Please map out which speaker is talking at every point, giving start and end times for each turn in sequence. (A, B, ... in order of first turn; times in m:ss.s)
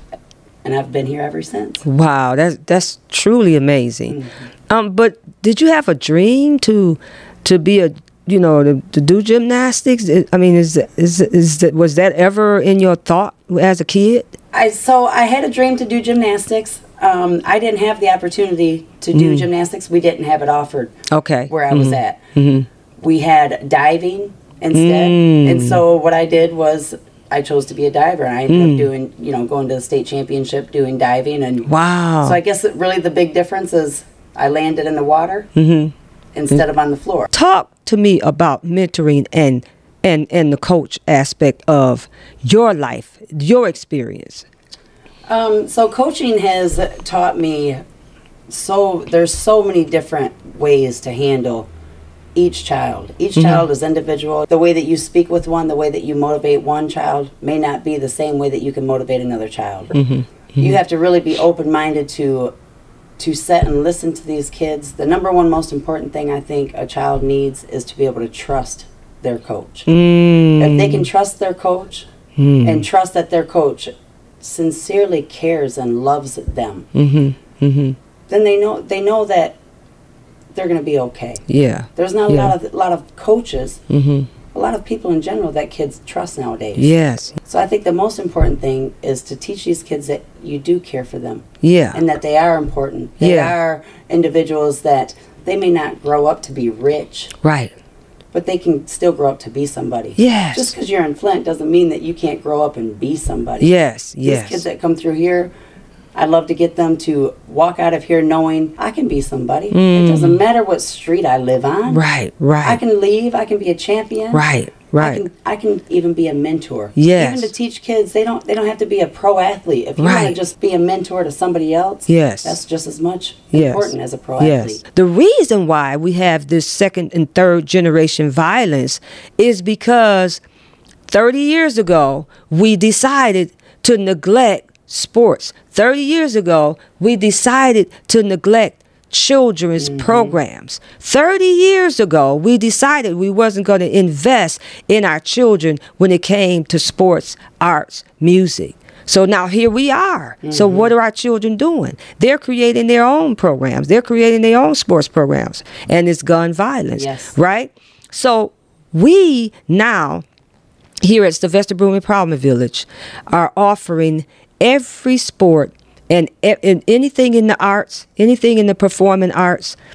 0:00.6-0:01.8 A
0:01.8-0:04.2 B
0:04.1-0:04.5 A
0:04.7-0:14.3 B
0:14.5-0:20.9 A
0:19.1-0:19.5 B
0:21.1-0:22.7 B
0:21.5-0:22.2 A
0:23.0-0:31.7 A
0:24.7-0:25.8 B
0:28.5-0:28.9 B
0:31.7-0:32.4 B
0:32.2-0:35.5 A
0:35.6-0:35.9 B
0:36.3-0:37.3 A
0:37.3-0:44.4 B
0:45.3-0:47.8 A
0:48.5-0:51.7 A
0:52.3-1:00.0 A
0:53.3-0:53.6 B
1:00.0-1:00.7 B
1:00.6-1:02.5 A
1:03.2-1:09.9 A
1:09.9-1:11.0 B
1:10.6-1:12.1 A
1:12.4-1:12.8 B
1:12.6-1:16.9 A
1:16.9-1:18.0 B
1:18.3-1:19.6 A
1:20.5-1:21.4 A
1:21.5-1:22.5 B
1:22.0-1:23.8 A
1:23.9-1:24.3 B
1:24.5-1:26.9 A
1:26.8-1:27.4 B
1:27.4-1:37.3 A
1:31.6-1:32.0 B
1:33.2-1:33.5 B
1:37.4-1:37.8 B
1:38.3-1:45.5 A
1:40.2-1:40.7 B
1:43.6-1:44.6 B
1:46.1-1:52.0 A
1:49.7-1:50.4 B
1:51.9-1:52.8 B
1:52.6-1:54.4 A
1:54.3-1:55.2 B
1:55.0-2:04.8 A
1:57.0-1:57.5 B
2:00.0-2:00.4 B
2:02.1-2:02.6 B
2:03.5-2:10.4 B
2:11.1-2:40.2 B
2:19.8-2:20.4 A
2:30.4-2:30.9 A
2:37.0-2:37.4 A
2:41.0-2:49.8 B